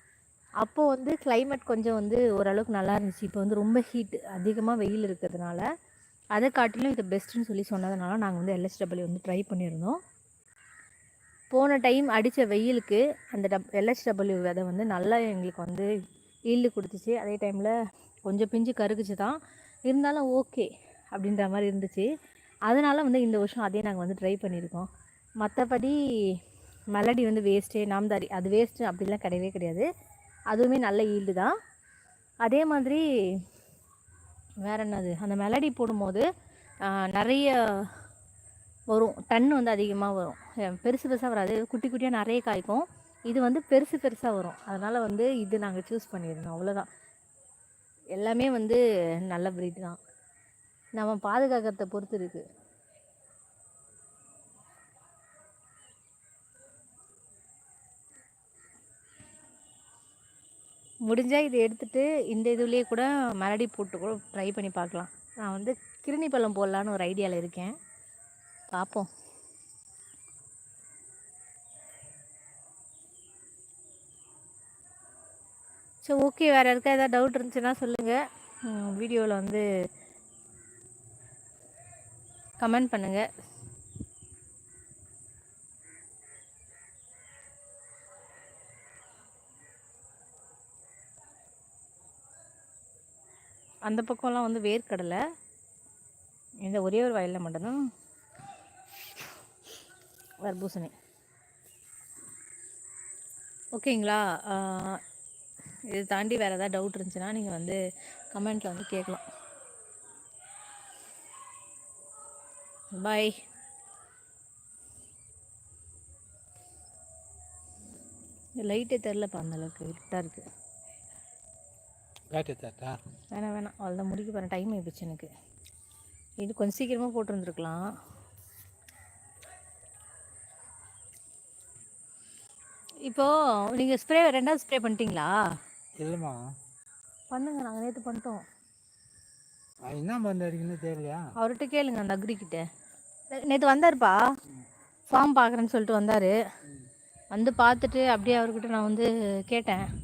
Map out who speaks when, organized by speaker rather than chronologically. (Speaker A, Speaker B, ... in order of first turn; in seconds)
Speaker A: 0.6-5.7, 6.3-10.0, 11.5-15.9, 16.5-17.8, 18.3-22.1, 22.7-24.9, 25.4-26.4, 26.9-29.9, 30.5-31.5, 32.4-33.4, 34.6-36.2, 36.9-38.0, 38.9-46.9, 48.1-50.0, 51.0-52.5, 61.1-67.8, 68.7-69.1, 76.0-79.7, 82.6-83.3, 93.9-95.2, 96.6-97.8, 100.4-100.9, 103.8-105.0, 105.9-107.8, 108.3-109.2, 113.0-113.3, 118.6-120.5, 123.3-125.3, 126.4-127.8, 133.1-135.3, 137.3-138.4, 141.4-142.6, 143.3-144.2, 145.1-146.4, 147.3-149.8
Speaker B: 122.3-123.0, 136.0-136.4, 139.8-141.2